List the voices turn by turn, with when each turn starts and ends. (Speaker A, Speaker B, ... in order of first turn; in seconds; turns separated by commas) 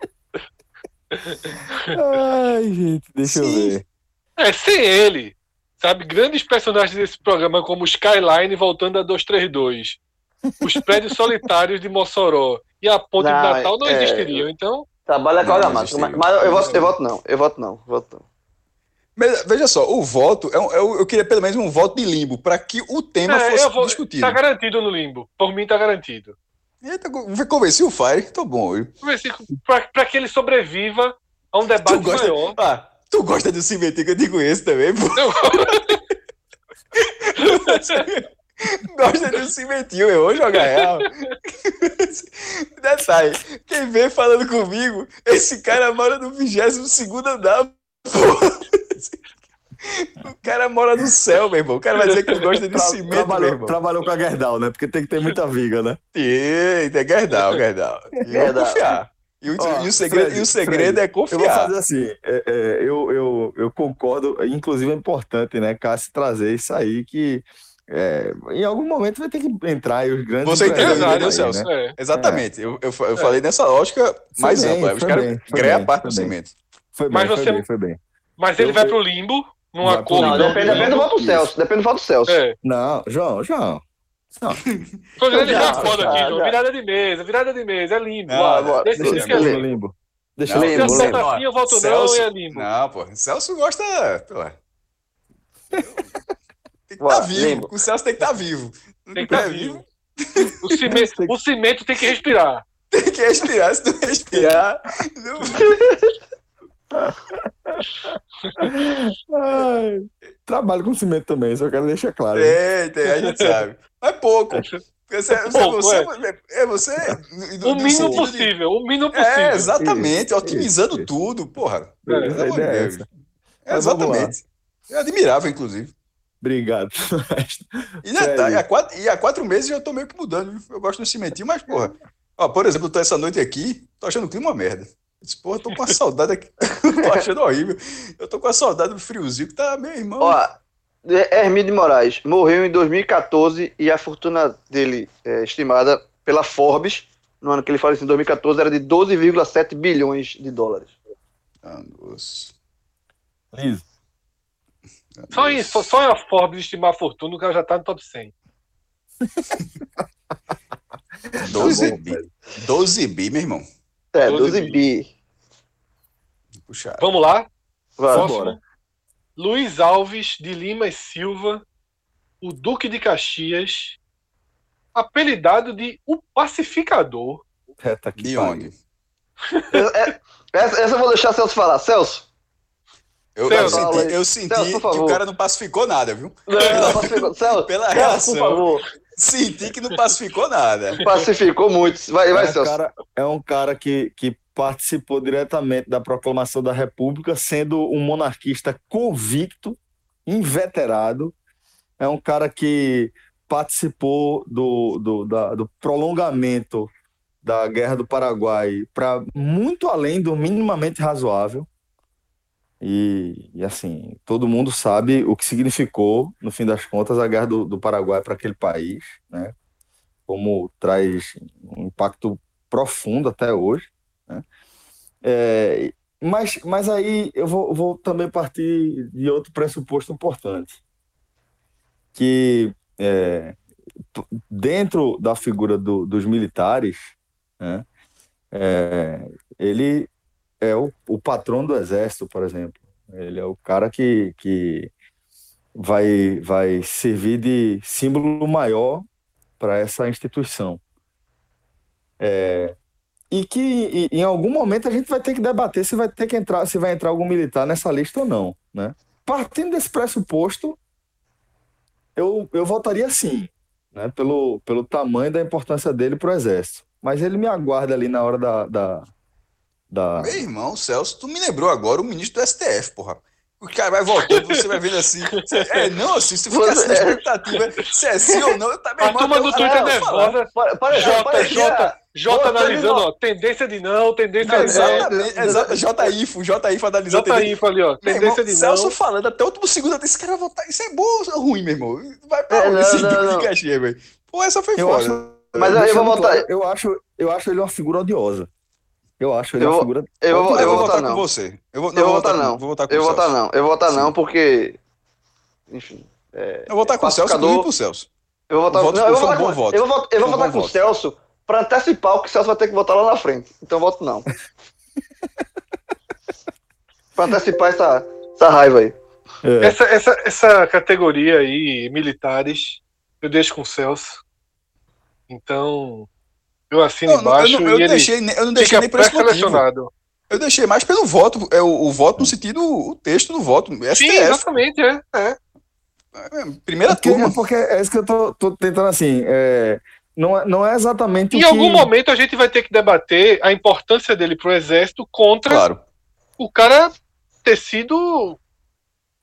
Speaker A: 1.1-1.9, Speaker B: 1.9-3.8, Speaker C: 3.2-3.8, Speaker A: 4.4-10.0, Speaker A: 10.6-14.8, Speaker D: 13.2-14.5, Speaker D: 15.1-18.2, Speaker C: 15.4-16.9, Speaker A: 16.6-16.9, Speaker C: 19.1-24.4, Speaker A: 23.3-26.3, Speaker C: 26.8-28.9, Speaker A: 29.0-32.6, Speaker C: 31.8-35.8, Speaker A: 35.1-36.0, Speaker C: 37.0-49.2, Speaker A: 37.4-38.1, Speaker A: 40.6-41.3, Speaker C: 49.8-53.7, Speaker B: 52.7-56.0, Speaker C: 56.1-61.7, Speaker B: 58.2-58.5, Speaker D: 58.4-58.9, Speaker B: 59.5-72.4, Speaker C: 70.4-76.5, Speaker A: 70.7-71.9, Speaker B: 74.4-76.3, Speaker B: 76.9-78.0, Speaker A: 77.1-77.7, Speaker A: 78.4-81.0, Speaker B: 78.6-79.0, Speaker B: 79.8-81.5, Speaker D: 80.2-82.4, Speaker A: 82.3-82.5, Speaker B: 82.6-83.8, Speaker C: 84.7-86.2, Speaker A: 85.2-89.6, Speaker D: 85.3-86.6, Speaker B: 85.6-85.9, Speaker C: 88.3-89.2, Speaker D: 88.4-89.6, Speaker B: 89.0-91.1, Speaker C: 90.5-94.5, Speaker D: 90.5-91.2, Speaker A: 90.6-92.7, Speaker C: 95.7-96.0, Speaker C: 96.9-100.9, Speaker D: 97.0-97.7, Speaker A: 99.2-99.8, Speaker A: 100.6-102.6, Speaker B: 100.9-101.3, Speaker C: 102.9-105.8, Speaker D: 104.3-104.6, Speaker D: 105.6-106.1, Speaker B: 106.9-107.8, Speaker B: 108.6-112.6, Speaker C: 112.3-118.5, Speaker A: 113.0-113.6, Speaker A: 115.4-116.1, Speaker A: 117.6-119.7, Speaker B: 117.9-118.2, Speaker C: 119.1-123.1, Speaker B: 119.8-121.1, Speaker B: 122.0-123.0, Speaker A: 122.1-122.4, Speaker C: 123.7-125.9, Speaker B: 123.7-124.3, Speaker B: 126.4-128.6, Speaker C: 128.0-140.4, Speaker D: 140.2-151.0, Speaker C: 151.6-152.5, Speaker B: 153.5-153.8, Speaker C: 155.1-155.8, Speaker A: 155.3-158.3, Speaker B: 159.2-159.5, Speaker B: 161.3-162.3, Speaker C: 161.4-163.6, Speaker D: 164.1-165.1, Speaker A: 164.2-164.8, Speaker C: 166.6-167.1, Speaker A: 167.0-167.5, Speaker D: 168.0-168.3, Speaker B: 168.1-168.6, Speaker A: 168.1-168.6, Speaker A: 169.4-171.6, Speaker A: 172.4-174.0, Speaker A: 174.9-177.4, Speaker B: 177.8-178.7, Speaker C: 178.2-178.7, Speaker D: 179.7-182.2, Speaker C: 183.3-188.6, Speaker A: 183.4-183.9, Speaker D: 183.5-185.2, Speaker D: 186.5-188.8, Speaker A: 186.6-186.8, Speaker C: 189.2-191.0, Speaker D: 191.0-192.7, Speaker B: 192.3-201.3, Speaker B: 202.0-206.9, Speaker B: 207.4-211.7, Speaker B: 212.8-219.5, Speaker B: 220.3-224.4, Speaker B: 225.2-230.8, Speaker B: 232.1-233.6, Speaker B: 234.1-237.8, Speaker B: 238.5-240.1, Speaker B: 240.6-244.9, Speaker B: 245.8-249.1, Speaker B: 249.6-250.8, Speaker B: 252.2-252.7, Speaker B: 253.3-260.8, Speaker B: 262.1-269.1, Speaker B: 269.9-270.4, Speaker C: 270.2-280.4, Speaker A: 275.5-275.9, Speaker D: 276.5-277.2, Speaker A: 279.0-285.1, Speaker D: 279.5-280.0, Speaker D: 280.5-283.1, Speaker D: 284.4-286.1, Speaker C: 284.4-295.2, Speaker A: 287.1-288.9, Speaker D: 292.5-293.5, Speaker B: 294.8-298.5, Speaker D: 295.6-296.4, Speaker B: 299.2-300.9, Speaker D: 299.6-301.2, Speaker C: 300.5-303.3, Speaker D: 301.9-304.8, Speaker C: 303.9-304.1, Speaker D: 305.7-307.7, Speaker C: 306.7-308.1, Speaker D: 308.5-314.3, Speaker C: 308.7-310.8, Speaker D: 317.1-318.9, Speaker B: 319.4-319.8, Speaker A: 319.6-324.2, Speaker A: 325.3-326.1, Speaker A: 326.7-329.9, Speaker C: 327.1-329.6, Speaker C: 330.3-334.4, Speaker A: 333.9-335.4, Speaker C: 336.1-337.4, Speaker B: 336.9-341.9, Speaker A: 341.3-345.6, Speaker C: 345.5-345.8, Speaker A: 346.4-346.9, Speaker A: 347.4-348.4